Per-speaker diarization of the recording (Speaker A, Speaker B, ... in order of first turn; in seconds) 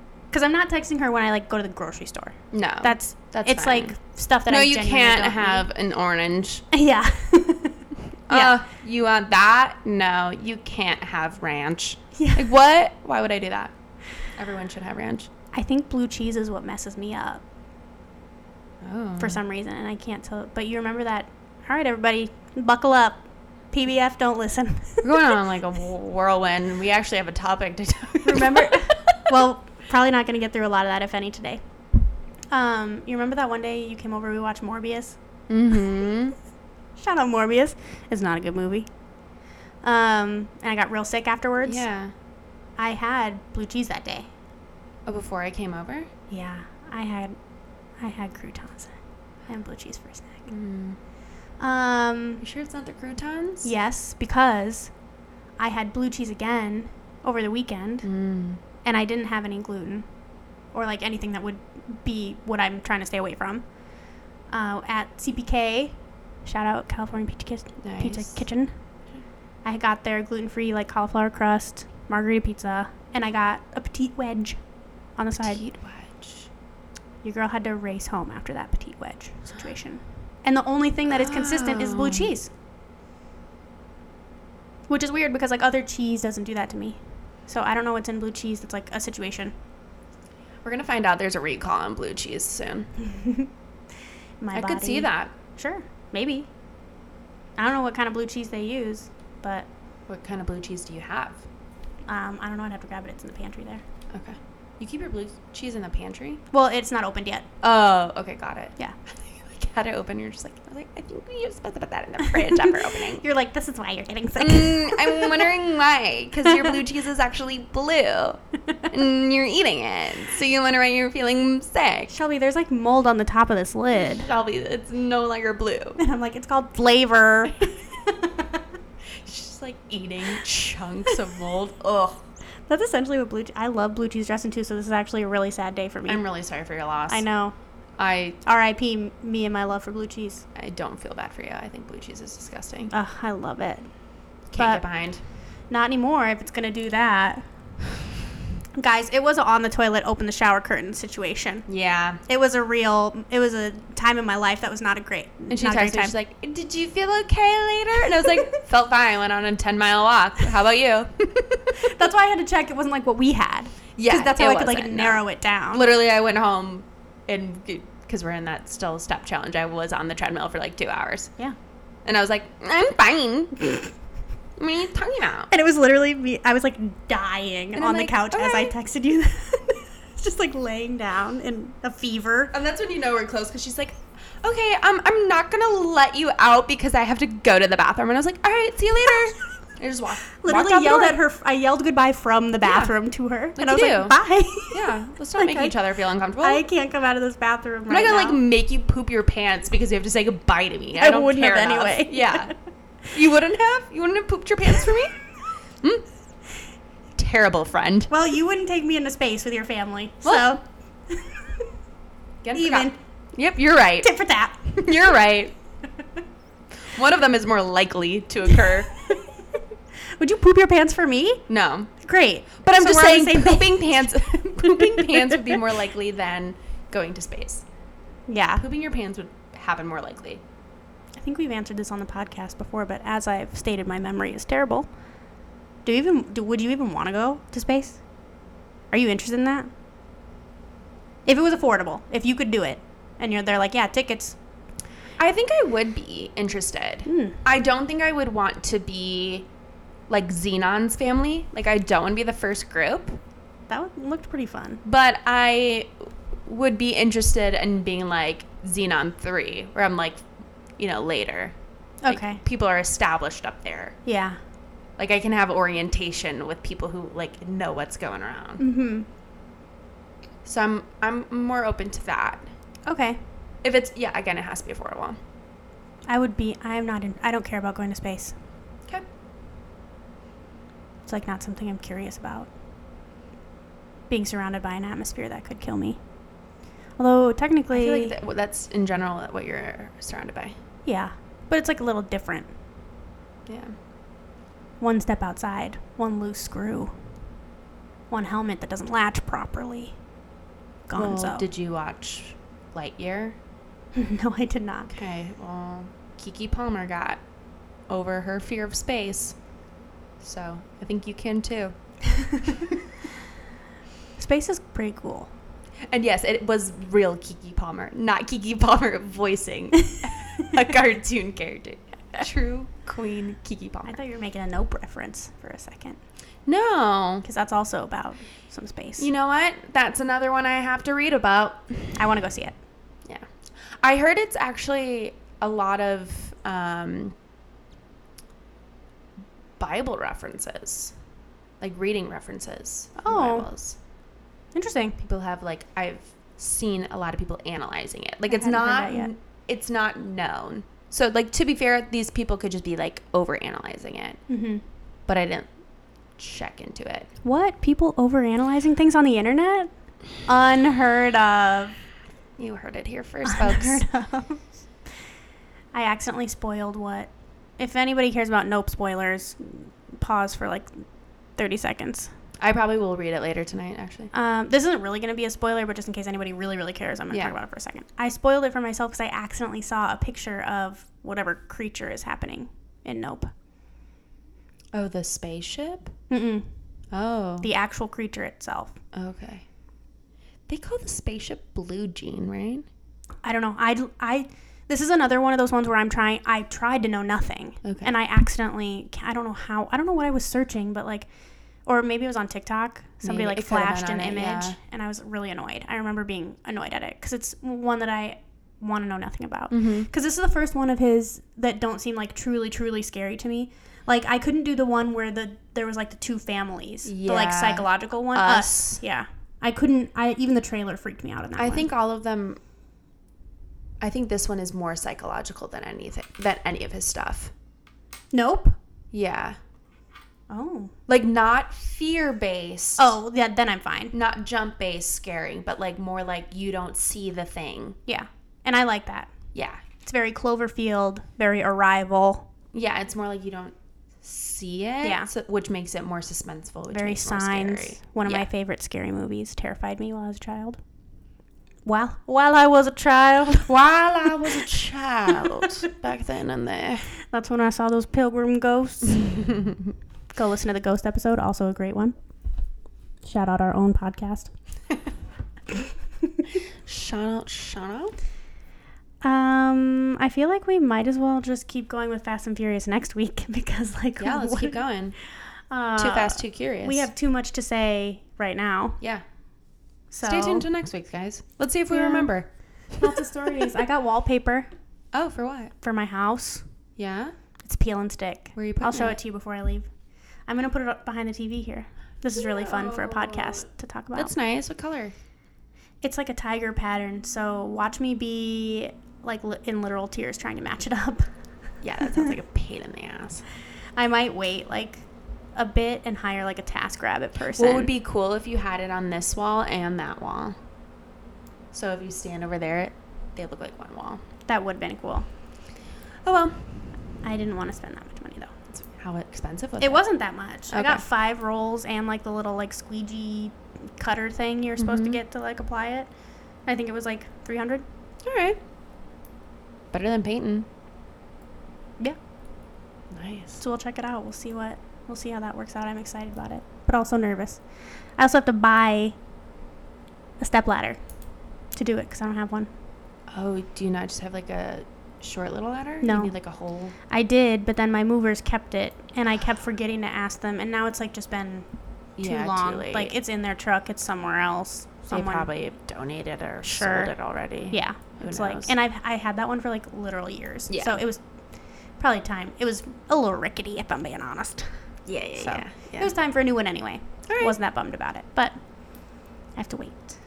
Speaker A: 0.3-5.7, 6.7-8.6, 12.2-12.5, 15.5-17.4, 19.2-25.4, 28.2-31.6, 32.5-35.2, 37.0-38.9, 39.8-41.8, 42.8-44.3, 46.3-47.4, 48.0-49.0, 49.5-50.5, 51.6-52.4, 53.6-54.9, 55.6-58.1, 58.8-60.1, 60.7-63.7, 64.5-68.7, 69.7-74.6, 75.2-75.6, 77.2-82.5, 84.9-89.5, 93.0-93.5, 94.4-96.5, 97.6-99.7, 102.1-103.8, 106.5-107.5, 112.2-115.5, 116.4-116.8, 122.1-124.3, 126.0-128.6, 132.7-136.2, 137.1-137.6, 138.4-140.4, 142.9-143.9, 144.6-144.8, 145.7-147.5, 148.8-151.7, 152.3-156.1, 161.8-165.9, 175.5-182.5, 190.3-195.7, 196.4-198.4, 201.0-202.5, 208.1-211.6, 212.5-213.0, 214.0-214.8, 220.2-221.4, 222.0-225.6, 228.3-228.6, 231.2-234.9, 235.8-238.0, 238.9-239.7, 241.3-244.4, 247.1-247.4, 253.7-254.8, 262.0-262.4, 264.1-264.4, 268.6-269.1, 272.9-273.2, 276.1-278.4, 281.1-282.5, 284.1-286.0, 287.0-288.2, 290.9-292.5, 294.8-297.0, 298.1-300.0, 300.9-301.5, 304.0-304.9, 314.2-315.3, 323.9-326.0, 327.2-329.1, 332.0-332.6, 343.0-343.5, 344.6-345.0, 348.3-349.1, 354.3-354.6, 357.2-359.7, 360.2-361.8, 363.2-364.4, 365.7-370.7, 371.4-372.1, 374.1-383.3, 386.1-386.5, 387.4-388.8, 393.2-401.1, 401.6-421.7, 428.1-428.6, 430.3-430.7, 432.8-433.9, 437.9-439.1, 439.8-442.3, 444.8-445.1, 446.7-450.6, 451.6-453.5, 454.1-454.5, 455.2-455.5, 457.0-459.2, 460.1-461.9, 463.0-464.3, 469.0-474.6, 475.5-478.8, 479.9-480.5, 481.7-482.1, 482.8-484.5, 485.6-486.4, 487.4-489.7, 490.3-494.1, 495.8-501.1, 503.8-507.7, 514.3-515.1, 517.0-518.3, 519.6-525.9, 526.5-527.6, 533.4-537.4, 538.0-539.0, 540.2-540.8, 541.5-542.5, 545.8-546.1, 546.9-551.5, 552.0-555.3, 556.4-556.9, 557.5-561.0, 561.8-564.6, 565.2-570.0
Speaker B: 2.5-6.7, 8.3-13.7, 14.3-15.3, 18.8-19.4, 25.0-29.3, 35.5-36.4, 41.6-42.1, 45.1-46.1, 50.5-51.0, 52.4-53.7, 58.0-58.6, 67.8-68.4, 75.4-76.5, 81.1-82.3, 90.6-92.9, 94.5-95.3, 100.1-101.4, 104.1-106.4, 107.6-113.2, 114.4-122.1, 123.9-126.0, 129.2-132.2, 136.1-137.2, 138.0-138.4, 140.6-142.9, 144.5-145.2, 151.7-152.2, 155.5-161.9, 164.0-171.3, 172.1-173.8, 174.6-175.5, 177.8-178.7, 182.5-191.2, 192.6-192.9, 193.6-194.2, 194.7-196.7, 197.9-202.5, 203.1-205.2, 207.2-208.1, 210.2-210.6, 212.4-214.1, 214.7-215.6, 216.9-218.9, 221.5-221.9, 222.6-227.7, 228.6-230.4, 245.2-249.5, 250.1-253.2, 254.8-260.2, 260.8-261.5, 262.1-264.0, 265.0-268.6, 270.4-272.5, 273.6-275.2, 287.7-290.6, 293.5-293.8, 300.9-303.4, 304.9-307.2, 307.9-309.4, 310.2-311.7, 312.4-312.8, 315.9-324.0, 326.5-327.3, 329.0-332.0, 333.8-337.1, 339.6-340.9, 341.6-343.8, 345.0-354.2, 355.1-355.5, 356.2-357.1, 362.4-363.9, 372.4-374.1, 384.7-385.9, 386.9-387.5, 388.9-389.4, 390.5-392.7, 397.6-397.9, 403.0-404.6, 409.5-409.9, 416.9-418.8, 421.4-422.4, 423.8-427.3, 428.9-429.4, 430.9-433.0, 433.9-437.8, 439.3-439.6, 442.5-448.3, 453.5-456.9, 466.6-468.0, 474.0-475.0, 475.8-476.9, 480.0-482.3, 484.9-485.5, 486.8-487.1, 488.4-489.0, 492.1-494.9, 501.6-503.2, 507.4-510.4, 511.5-514.0, 516.0-516.7, 518.5-519.8, 520.5-520.8, 524.6-525.0, 528.0-528.4, 529.7-530.5, 532.9-533.4, 543.1-546.8, 552.0-552.9, 554.9-558.5, 560.5-560.8, 564.9-565.9, 567.1-567.4